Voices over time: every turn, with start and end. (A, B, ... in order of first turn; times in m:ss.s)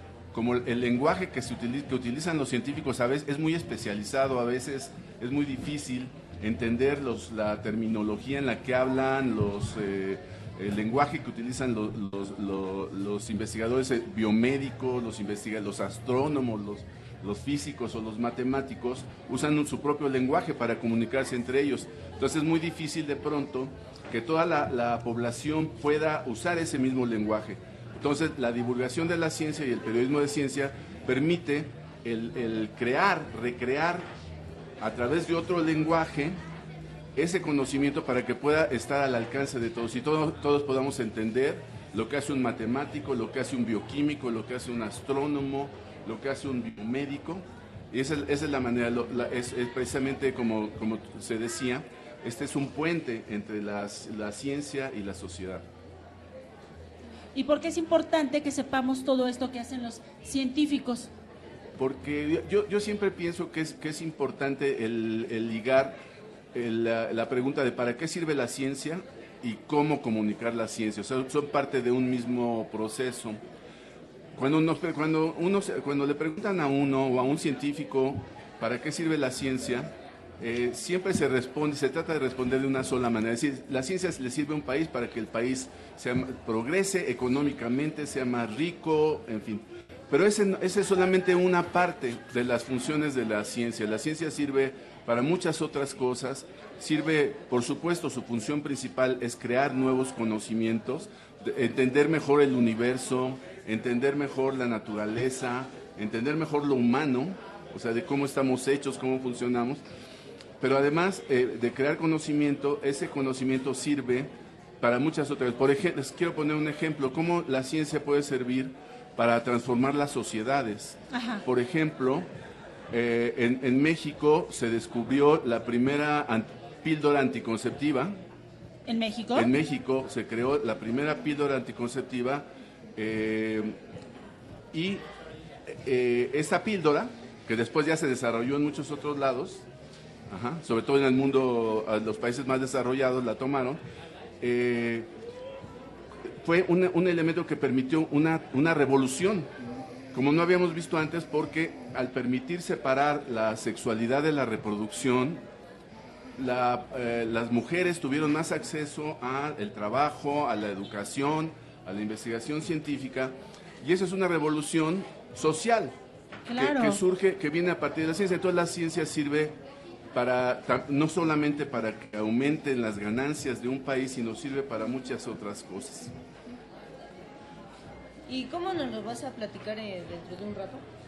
0:00.3-0:34.1 A
0:34.8-0:36.4 A
0:37.2-0:55.6 A
0:57.3-1:01.1 B
1:01.8-1:06.0 A
1:06.5-1:13.4 A
1:14.4-1:49.8 A
1:50.6-2:02.3 A
2:01.1-2:01.4 B
2:02.9-2:08.2 A
2:08.8-2:09.5 B
2:09.3-2:13.8 A
2:14.7-2:15.0 A
2:15.7-2:19.6 A
2:20.3-2:23.8 A
2:24.4-2:25.1 A
2:26.4-2:29.5 A
2:30.1-2:35.4 A
2:36.4-2:45.9 A
2:46.5-2:47.0 B
2:46.5-2:49.6 A
2:50.1-2:56.1 A
2:58.3-3:00.8 C